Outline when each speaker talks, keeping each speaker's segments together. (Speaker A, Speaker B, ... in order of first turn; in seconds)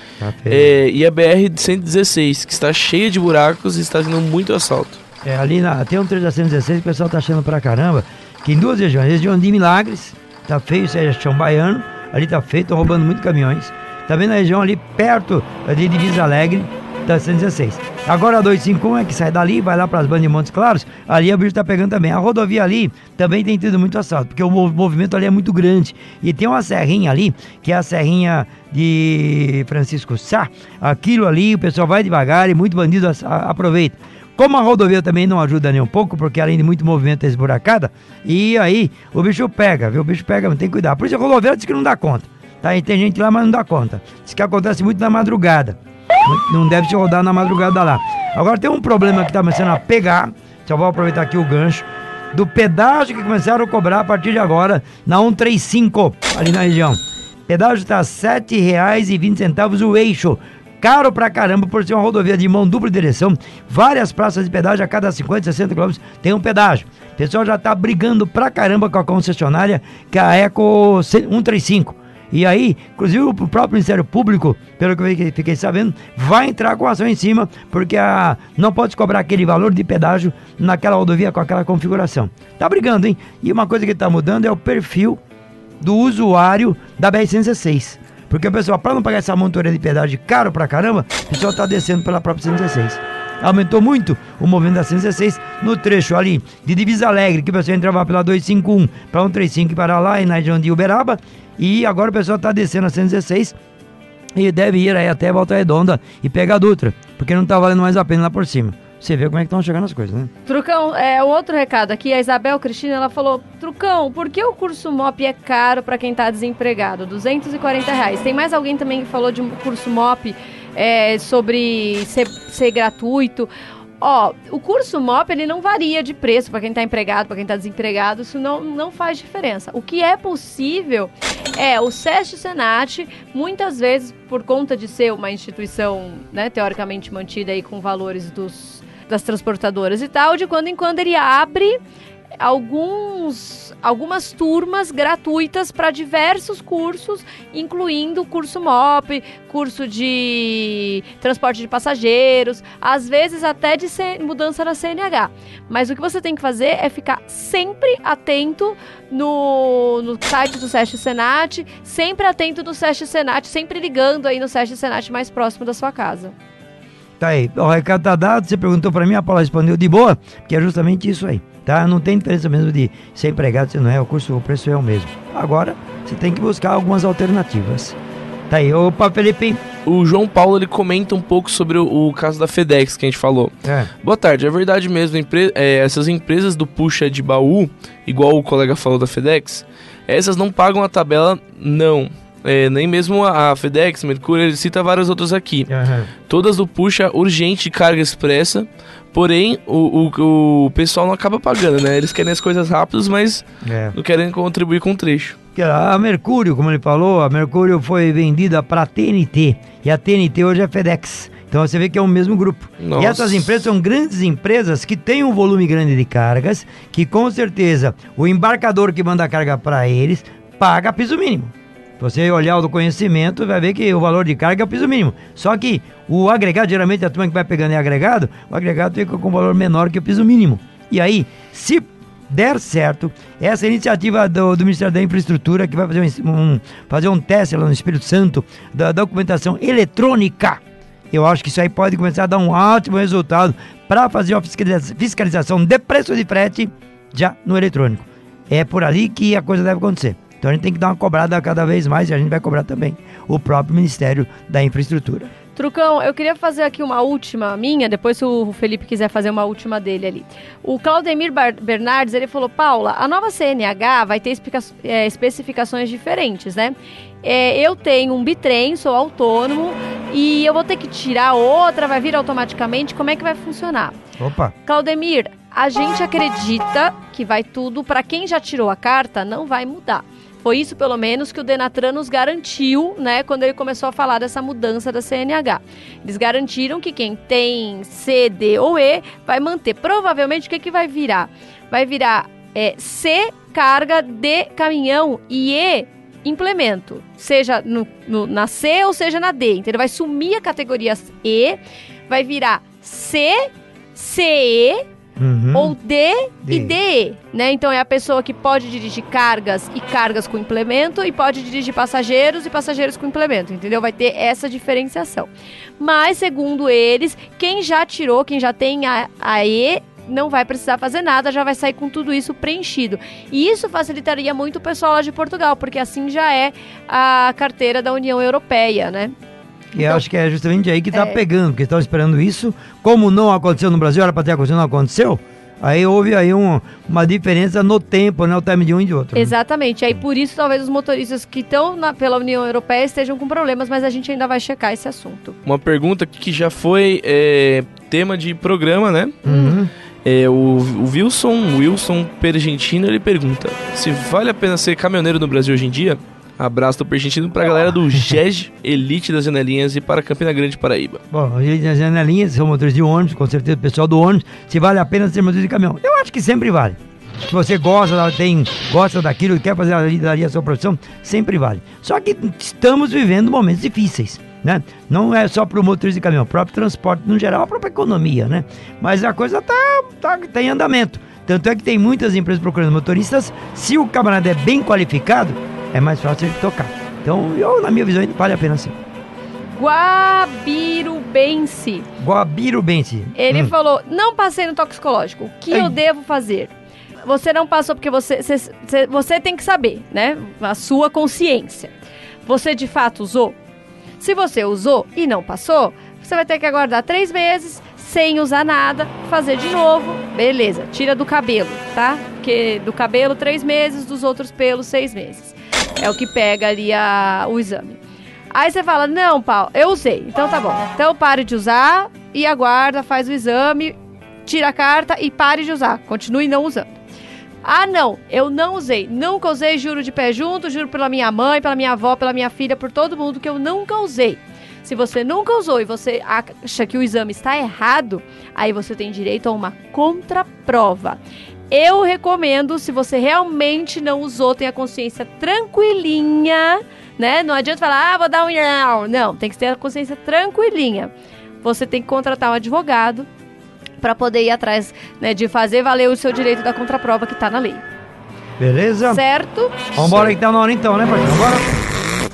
Speaker A: 0.2-0.7, 5.2-85.2, 85.8-103.5, 104.3-110.3, 167.2-177.9, 178.5-179.6, 183.6-183.9, 195.7-196.1, 203.6-203.9, 205.6-240.6, 241.1-255.3, 274.2-274.5, 305.2-305.8, 306.4-306.8, 329.7-339.3, 349.2-349.7, 361.1-388.7, 392.0-393.5, 395.5-395.8, 458.4-459.0, 459.7-461.5
Speaker B: 0.5-5.0, 179.8-195.7, 196.3-205.3, 212.8-213.4, 345.4-349.2, 350.0-361.0
Speaker C: 110.5-123.5, 124.0-141.8, 142.4-166.3, 255.5-274.0, 274.6-304.8, 305.5-329.1, 330.9-331.2, 339.1-345.4, 349.2-349.6, 389.5-391.9, 393.1-396.5, 397.0-401.7, 402.2-403.4, 404.0-417.8, 418.3-426.7, 427.4-441.0, 441.5-450.9, 451.4-453.1, 453.8-457.6, 458.9-460.1